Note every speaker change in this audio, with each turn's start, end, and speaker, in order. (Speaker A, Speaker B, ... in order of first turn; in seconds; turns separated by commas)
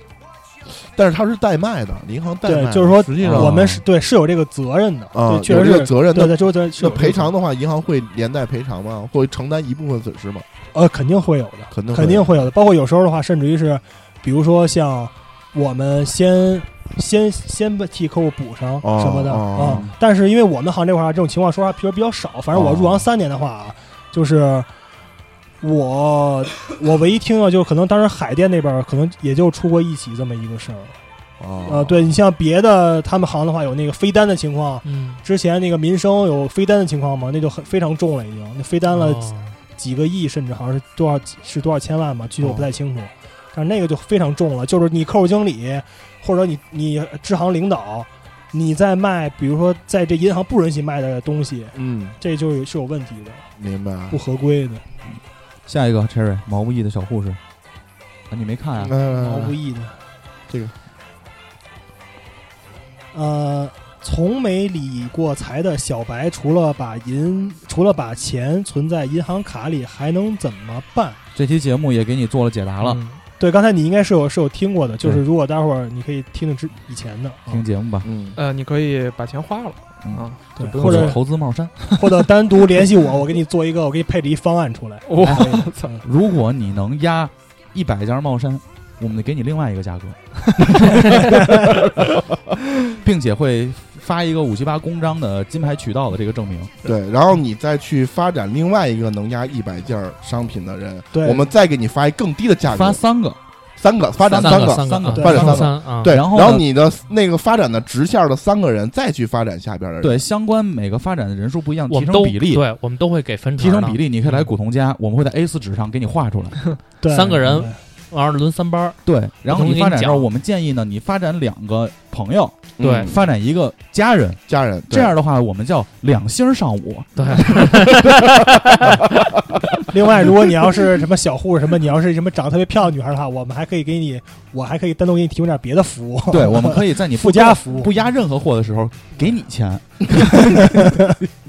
Speaker A: 0.7-3.6, Speaker B: 2.4-7.3, Speaker C: 3.2-3.8, Speaker A: 5.1-10.4, Speaker B: 10.7-24.7, Speaker A: 11.7-12.4, Speaker A: 18.8-19.9, Speaker C: 19.6-19.9, Speaker A: 22.5-23.0, Speaker B: 25.6-31.0, Speaker A: 31.4-32.1, Speaker B: 31.6-53.5, Speaker D: 34.9-35.2, Speaker D: 38.9-39.6, Speaker A: 42.4-42.7, Speaker A: 51.7-52.1, Speaker A: 53.6-54.2, Speaker B: 54.1-54.8, Speaker C: 55.1-57.4, Speaker C: 58.3-58.9, Speaker A: 58.8-59.5, Speaker B: 59.0-60.0, Speaker A: 60.5-60.7, Speaker B: 63.1-71.2, Speaker C: 71.3-73.0, Speaker B: 73.0-77.6, Speaker C: 77.5-78.1, Speaker A: 78.0-78.4, Speaker E: 78.3-81.1, Speaker C: 80.0-81.7, Speaker B: 80.6-81.2, Speaker B: 81.8-86.0, Speaker E: 85.0-85.9, Speaker C: 85.2-85.5, Speaker C: 86.0-92.0, Speaker C: 93.0-96.7, Speaker A: 96.8-103.0, Speaker B: 101.1-101.5, Speaker C: 102.7-103.4, Speaker A: 103.8-110.2, Speaker C: 104.2-106.6, Speaker D: 104.3-106.2, Speaker C: 110.0-112.6, Speaker D: 111.9-114.0, Speaker C: 113.6-116.6, Speaker B: 117.0-117.8, Speaker D: 117.1-120.3, Speaker C: 119.0-128.9, Speaker A: 122.8-123.2, Speaker D: 122.8-123.1, Speaker A: 124.5-125.1, Speaker D: 127.2-128.6, Speaker B: 129.9-137.9, Speaker C: 136.3-140.9